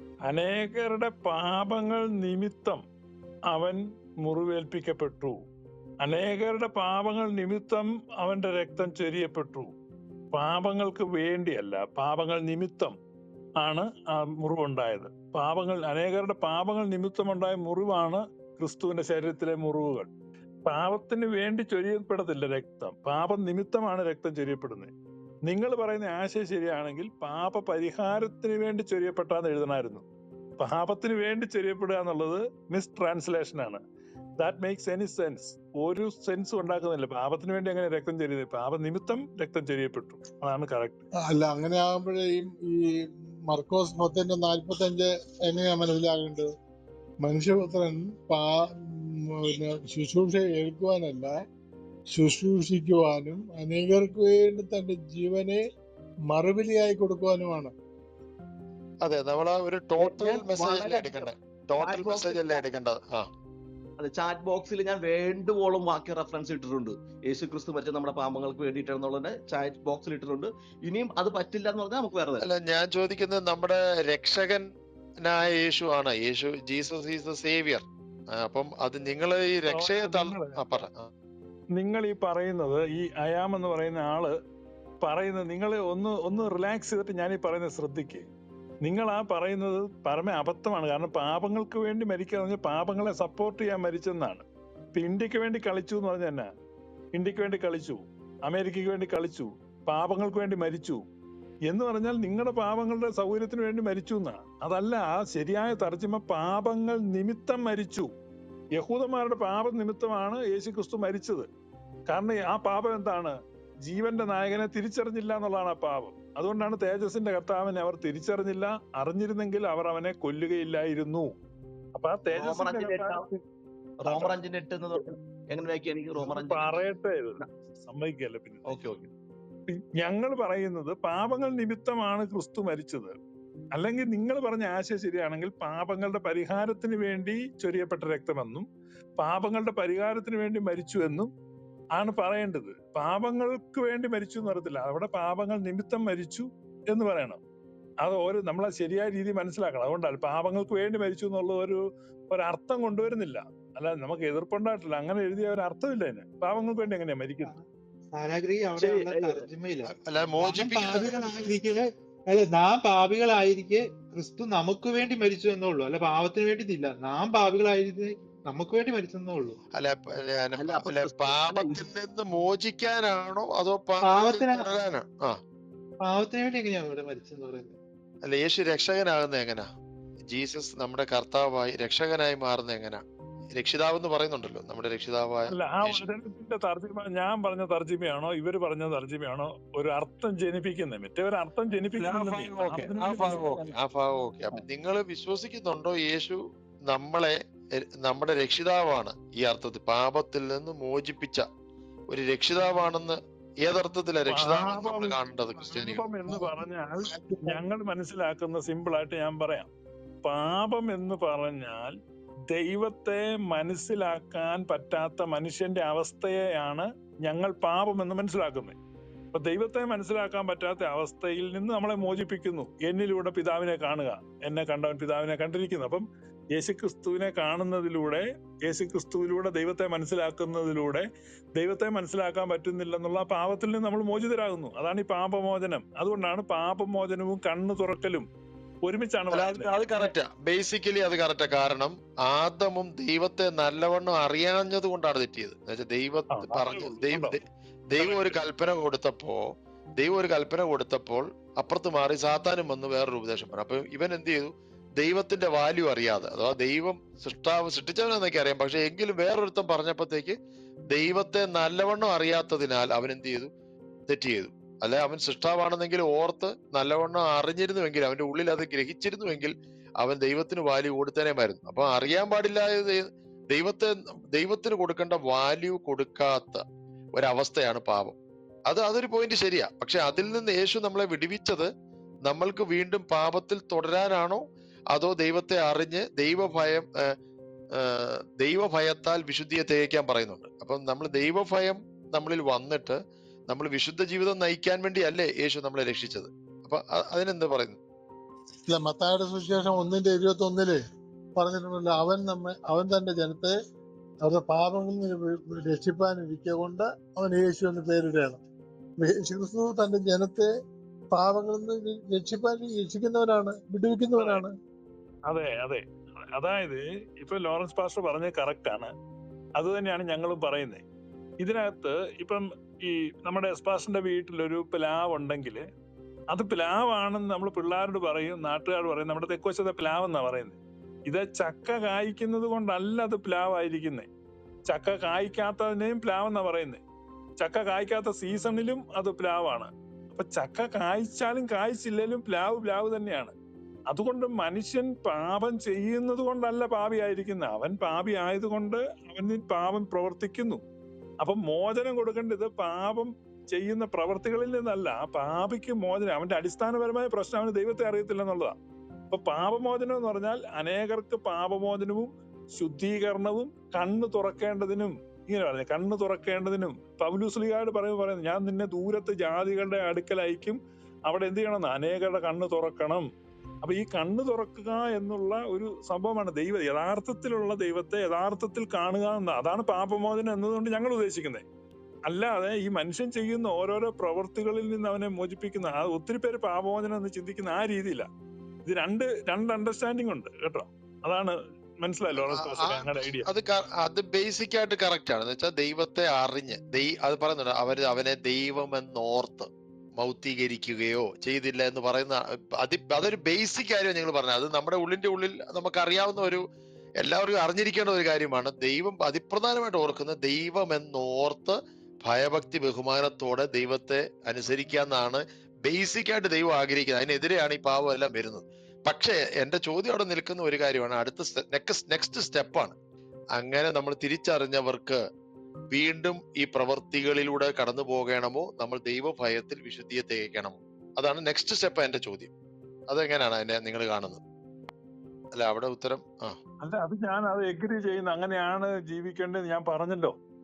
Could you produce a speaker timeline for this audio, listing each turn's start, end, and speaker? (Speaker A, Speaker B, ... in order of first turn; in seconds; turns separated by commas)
Speaker A: 0.3-2.8, Speaker A: 3.5-5.4, Speaker A: 6.0-9.7, Speaker A: 10.3-12.9, Speaker A: 13.6-20.1, Speaker A: 20.7-24.9, Speaker A: 25.5-30.0, Speaker A: 30.6-33.8, Speaker A: 34.4-41.0, Speaker B: 41.2-46.5, Speaker B: 47.2-51.3, Speaker B: 52.1-55.6, Speaker B: 56.3-57.7, Speaker C: 59.0-63.3, Speaker D: 60.0-62.6, Speaker D: 64.0-72.5, Speaker C: 72.4-74.6, Speaker C: 75.2-77.8, Speaker C: 78.4-81.1, Speaker A: 79.7-80.6, Speaker A: 81.8-84.3, Speaker A: 85.0-88.3, Speaker A: 88.8-96.5, Speaker A: 97.2-101.0, Speaker A: 101.7-108.1, Speaker A: 108.8-111.5, Speaker A: 112.1-121.3, Speaker A: 122.0-123.4, Speaker D: 122.3-123.3, Speaker D: 124.0-126.8, Speaker A: 124.0-124.3, Speaker A: 126.2-128.8, Speaker D: 128.7-129.1, Speaker A: 129.7-133.1, Speaker A: 133.8-138.7, Speaker A: 139.2-141.3, Speaker A: 142.0-147.4, Speaker A: 148.0-157.5, Speaker E: 158.1-169.6, Speaker D: 158.8-159.5, Speaker C: 159.9-161.3, Speaker C: 169.8-175.4, Speaker D: 170.6-171.9, Speaker E: 174.1-174.7, Speaker E: 176.0-177.8, Speaker C: 178.2-179.7, Speaker C: 180.3-183.0, Speaker C: 183.6-186.1, Speaker A: 185.5-193.6, Speaker C: 192.0-197.4, Speaker C: 198.0-201.4, Speaker C: 202.1-206.1, Speaker A: 204.3-209.7, Speaker B: 206.3-206.6, Speaker A: 210.2-211.9, Speaker A: 212.5-218.8, Speaker A: 219.3-231.1, Speaker A: 231.6-238.2, Speaker A: 238.8-240.1, Speaker C: 239.3-249.4, Speaker A: 246.3-247.4, Speaker A: 248.0-248.4, Speaker C: 250.0-260.4, Speaker C: 260.9-263.5, Speaker C: 264.1-276.6, Speaker C: 277.1-278.2, Speaker C: 278.7-281.7, Speaker C: 282.3-286.9, Speaker C: 287.8-293.0, Speaker C: 293.5-297.8, Speaker B: 298.7-300.8, Speaker B: 301.4-303.5, Speaker B: 304.2-308.4, Speaker B: 309.0-310.5, Speaker B: 311.1-314.5, Speaker A: 314.2-314.5, Speaker A: 315.3-315.8, Speaker A: 316.3-318.9, Speaker A: 319.6-320.8, Speaker A: 321.4-325.6, Speaker A: 326.3-334.1, Speaker A: 334.7-336.8, Speaker A: 337.4-343.3, Speaker A: 343.9-350.6, Speaker A: 351.2-358.6, Speaker A: 359.1-373.1, Speaker A: 373.6-381.4, Speaker A: 382.1-388.1, Speaker A: 388.6-393.3, Speaker C: 392.1-406.4, Speaker C: 407.0-422.8, Speaker C: 423.4-425.0, Speaker C: 425.7-432.3, Speaker C: 432.9-434.2, Speaker C: 435.4-436.4, Speaker A: 436.6-440.1